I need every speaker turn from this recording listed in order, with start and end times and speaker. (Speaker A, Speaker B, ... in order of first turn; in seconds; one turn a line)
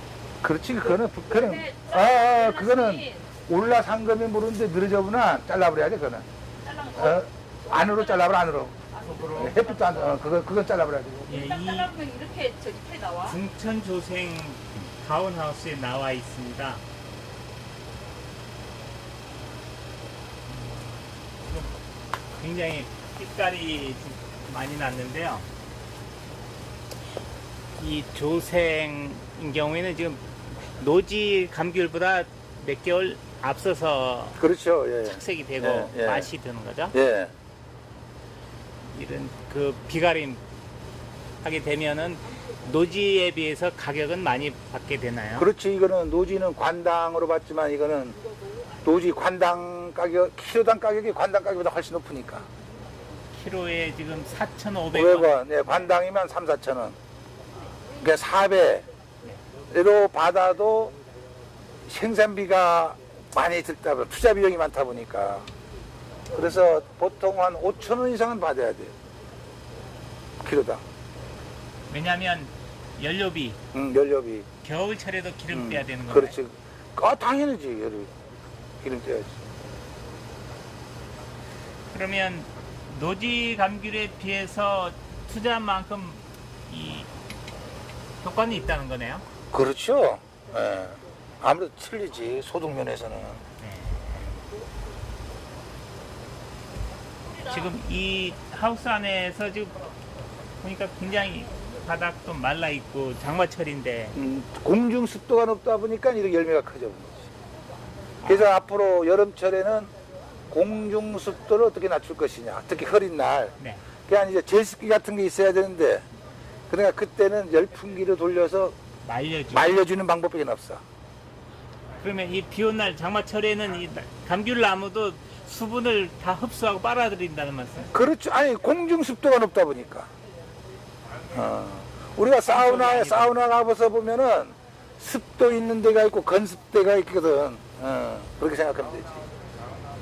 Speaker A: 0.4-6.2
Speaker B: 1.0-3.3
Speaker B: 6.6-8.3
Speaker A: 6.9-11.4
Speaker B: 8.9-10.1
Speaker C: 9.0-9.6
Speaker C: 11.3-12.0
Speaker B: 11.3-13.4
Speaker C: 13.2-16.8
Speaker C: 20.5-21.7
Speaker C: 22.4-25.5
Speaker C: 27.8-34.4
Speaker A: 34.4-36.3
Speaker C: 35.0-37.0
Speaker A: 36.9-37.3
Speaker C: 38.9-40.4
Speaker C: 41.4-45.5
Speaker A: 45.4-48.2
Speaker A: 48.8-52.5
Speaker C: 53.3-55.9
Speaker A: 54.9-57.0
Speaker A: 58.0-58.9
Speaker A: 59.7-60.9
Speaker A: 61.9-65.5
Speaker A: 66.3-68.9
Speaker A: 70.4-70.8
Speaker C: 71.9-73.6
Speaker A: 73.7-74.5
Speaker C: 74.6-76.4
Speaker A: 75.5-78.1
Speaker A: 78.8-79.3
Speaker C: 81.9-87.1
Speaker C: 88.2-89.2
Speaker A: 89.5-93.4
Speaker C: 93.6-94.4
Speaker C: 97.4-99.7
Speaker C: 100.6-104.2
Speaker A: 104.2-107.3
Speaker C: 108.2-108.6
Speaker A: 108.2-109.9
Speaker A: 110.5-113.5
Speaker A: 114.1-116.0
Speaker A: 116.7-118.8
Speaker C: 119.0-119.7
Speaker A: 119.5-120.8
Speaker C: 122.0-128.0
Speaker A: 127.9-130.1
Speaker A: 131.3-139.2
Speaker C: 132.5-133.3